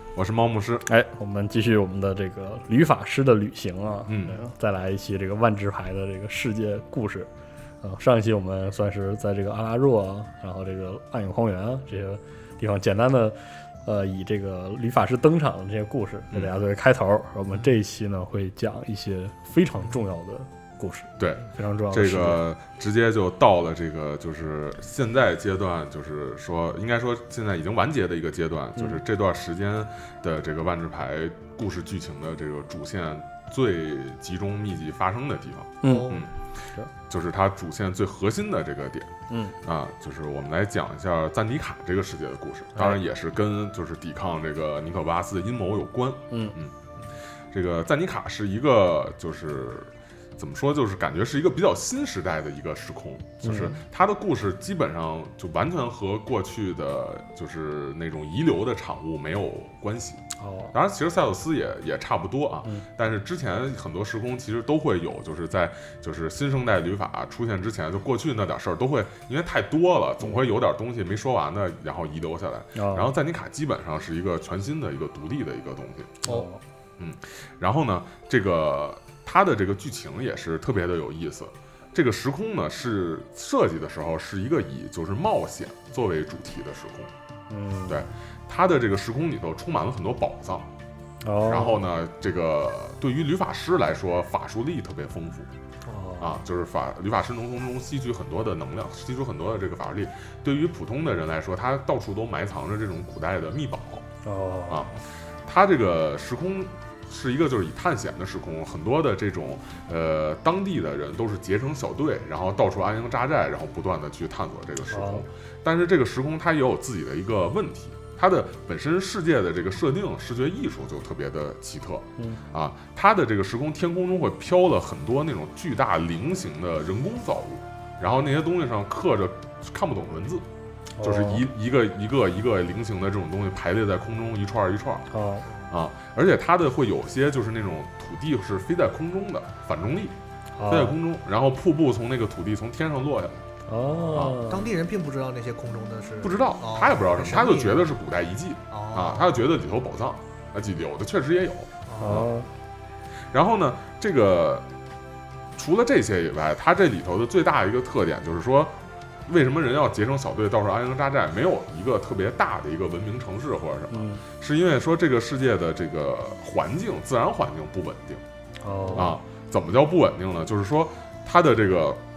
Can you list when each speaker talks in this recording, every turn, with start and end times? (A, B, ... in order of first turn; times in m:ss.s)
0:00.2-0:00.9 A
0:00.9-0:07.3 B
0:04.1-0:04.4 A
0:07.8-0:22.4 B
0:16.3-0:16.6 A
0:21.2-0:36.3 A
0:35.8-0:36.2 B
0:35.8-0:36.3 C
0:37.1-0:46.7 A
0:39.3-0:39.6 B
0:46.3-0:46.6 B
0:47.5-1:16.3 A
0:53.4-0:53.8 B
1:00.4-1:00.7 B
1:12.8-1:13.1 B
1:16.2-1:16.5 C
1:16.2-1:16.6 B
1:17.0-1:27.1 A
1:27.5-1:28.1 B
1:27.9-1:30.7 A
1:31.2-1:31.8 B
1:31.4-1:35.5 A
1:35.9-1:36.4 B
1:36.2-1:44.1 A
1:44.2-1:45.0 B
1:45.5-2:10.4 A
1:54.9-1:55.2 B
2:11.0-2:11.5 B
2:11.0-2:15.1 A
2:15.1-2:15.5 B
2:15.7-2:23.5 A
2:20.6-2:21.0 B
2:23.7-2:24.7 B
2:23.8-2:27.9 C
2:24.1-2:24.4 A
2:26.2-2:32.3 A
2:28.7-2:29.4 C
2:31.9-2:32.3 C
2:32.0-2:32.5 B
2:33.3-2:34.7 A
2:35.6-2:38.7 A
2:39.3-2:48.2 A
2:43.9-2:44.2 B
2:48.6-2:49.1 B
2:48.8-2:49.1 C
2:48.9-2:52.0 A